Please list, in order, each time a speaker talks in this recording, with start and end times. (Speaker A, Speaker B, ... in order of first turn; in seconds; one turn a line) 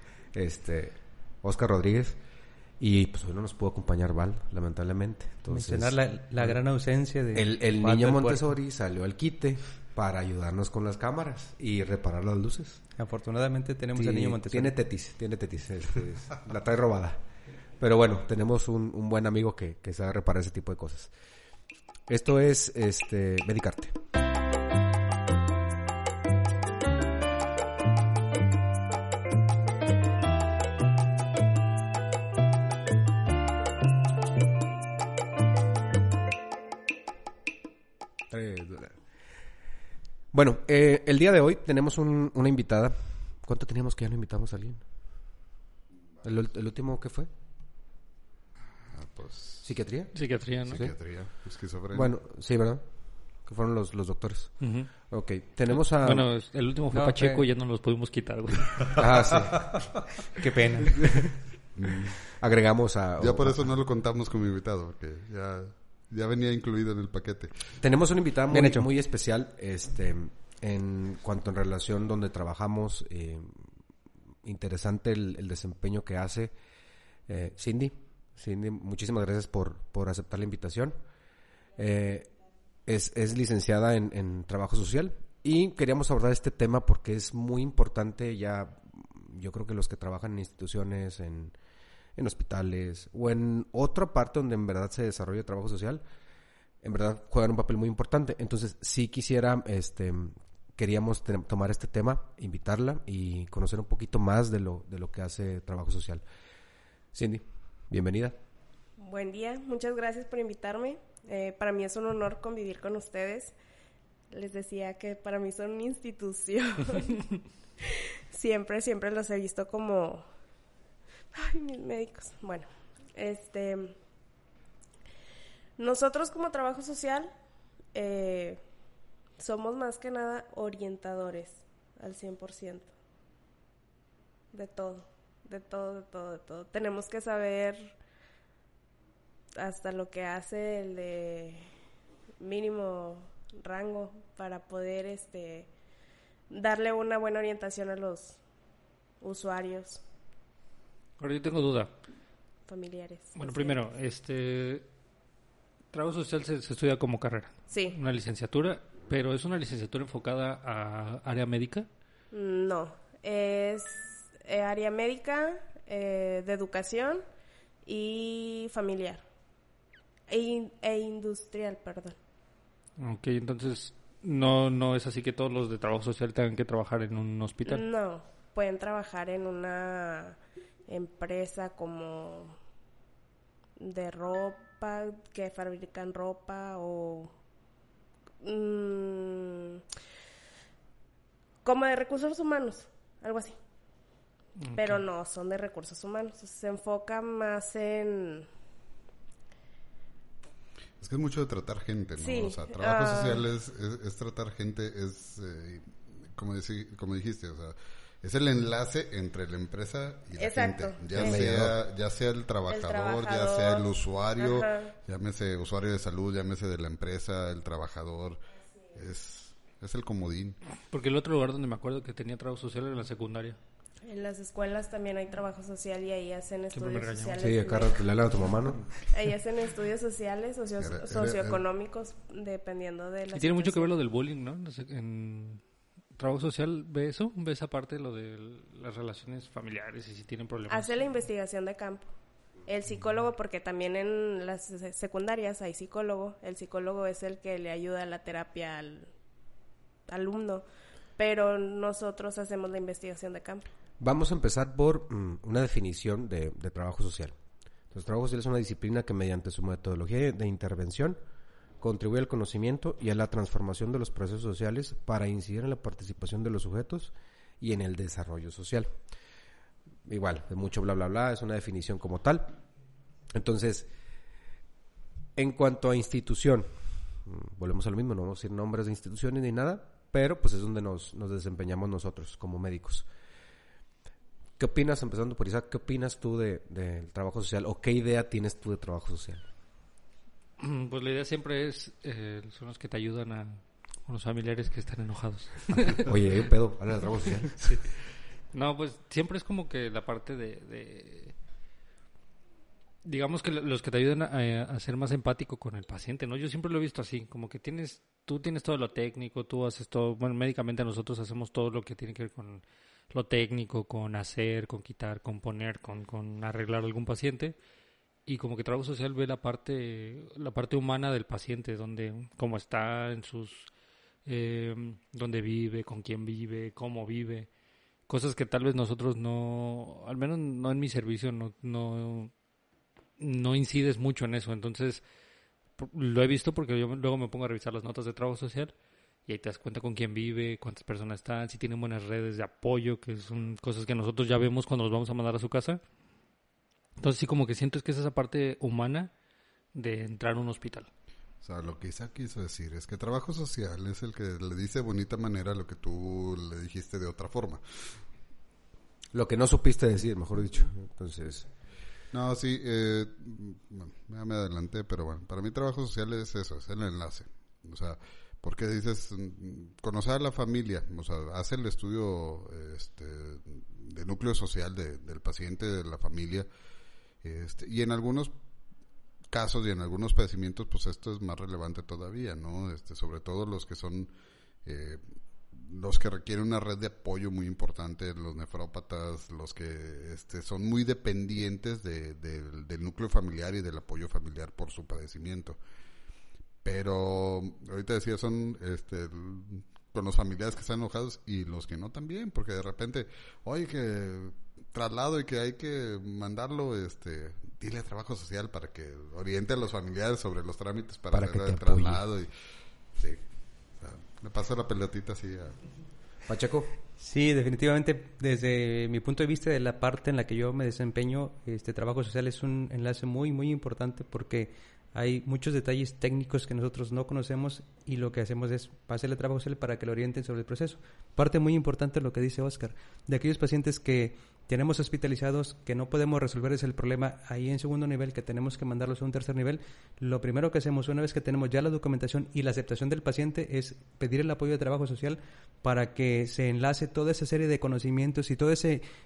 Speaker A: 0.3-2.2
Speaker A: 2.8-6.6
Speaker B: 5.5-8.4
Speaker A: 7.3-12.8
Speaker B: 13.0-14.8
Speaker A: 13.9-17.2
Speaker A: 17.8-21.1
Speaker A: 22.1-24.0
Speaker A: 38.3-39.0
Speaker A: 40.3-44.9
Speaker A: 46.2-47.3
Speaker C: 48.9-49.7
Speaker A: 49.6-50.1
Speaker D: 50.1-50.9
Speaker C: 50.7-52.1
Speaker A: 50.7-51.0
Speaker A: 51.9-52.9
Speaker A: 53.4-56.3
Speaker D: 54.6-54.9
Speaker D: 55.9-59.1
Speaker B: 56.9-57.5
Speaker A: 58.9-59.7
Speaker B: 60.4-61.3
Speaker A: 60.9-61.2
Speaker C: 61.8-62.2
Speaker A: 62.3-63.7
Speaker C: 63.2-67.8
Speaker A: 67.8-73.7
Speaker B: 68.5-68.9
Speaker A: 74.4-76.5
Speaker A: 77.3-81.0
Speaker A: 81.8-82.3
Speaker A: 82.9-91.6
Speaker A: 92.2-96.0
Speaker A: 96.8-106.2
Speaker A: 107.1-108.4
Speaker E: 109.0-113.6
Speaker E: 114.3-120.2
Speaker E: 121.3-124.0
Speaker E: 125.8-127.3
Speaker E: 127.9-128.6
Speaker E: 129.4-132.9
Speaker E: 134.5-138.0
Speaker E: 139.6-141.6
Speaker E: 142.4-145.7
Speaker E: 146.5-148.4
Speaker E: 149.2-150.0
Speaker D: 151.2-151.9
Speaker E: 152.7-153.8
Speaker D: 153.4-154.9
Speaker D: 155.9-161.9
Speaker E: 157.7-158.0
Speaker E: 162.3-167.2
Speaker E: 167.8-169.2
Speaker E: 170.3-172.2
Speaker D: 173.0-177.8
Speaker E: 177.7-182.6
Speaker E: 183.8-187.3
Speaker E: 188.4-189.8
Speaker E: 191.6-193.6
Speaker D: 194.6-195.0
Speaker E: 194.7-198.5
Speaker C: 201.0-218.4
Speaker E: 202.2-203.4
Speaker E: 210.4-211.4
Speaker A: 211.1-211.8
Speaker E: 212.7-214.9
Speaker C: 218.9-220.6
Speaker D: 220.9-223.6
Speaker E: 224.0-228.1
Speaker D: 226.7-227.8
Speaker A: 227.4-228.9
Speaker E: 229.1-233.9
Speaker C: 230.8-231.6
Speaker D: 233.3-235.6
Speaker D: 236.2-241.1
Speaker E: 240.7-242.1
Speaker E: 242.7-249.1
Speaker E: 250.1-250.7
Speaker E: 251.2-253.7
Speaker A: 254.0-257.4
Speaker A: 257.9-261.2
Speaker A: 261.8-268.9
Speaker A: 270.1-272.6
Speaker A: 273.3-273.9
Speaker A: 275.4-276.7
Speaker A: 277.2-283.1
Speaker A: 284.6-289.4
Speaker D: 290.6-296.1
Speaker A: 296.0-297.8
Speaker D: 297.6-297.9
Speaker D: 298.5-301.4
Speaker D: 303.1-317.6
Speaker D: 318.3-323.7
Speaker D: 324.3-327.5
Speaker D: 328.1-332.3
Speaker D: 333.2-335.0
Speaker D: 335.8-338.7
Speaker D: 339.3-345.8
Speaker D: 347.0-349.1
Speaker D: 349.7-350.9
Speaker C: 351.4-357.6
Speaker A: 359.1-361.5
Speaker C: 362.1-376.5
Speaker C: 377.2-378.3
Speaker C: 379.3-384.1
Speaker C: 384.6-395.6
Speaker C: 396.6-412.3
Speaker A: 411.1-412.0
Speaker C: 413.0-413.2
Speaker C: 413.8-415.6
Speaker A: 416.3-416.7
Speaker B: 417.0-448.9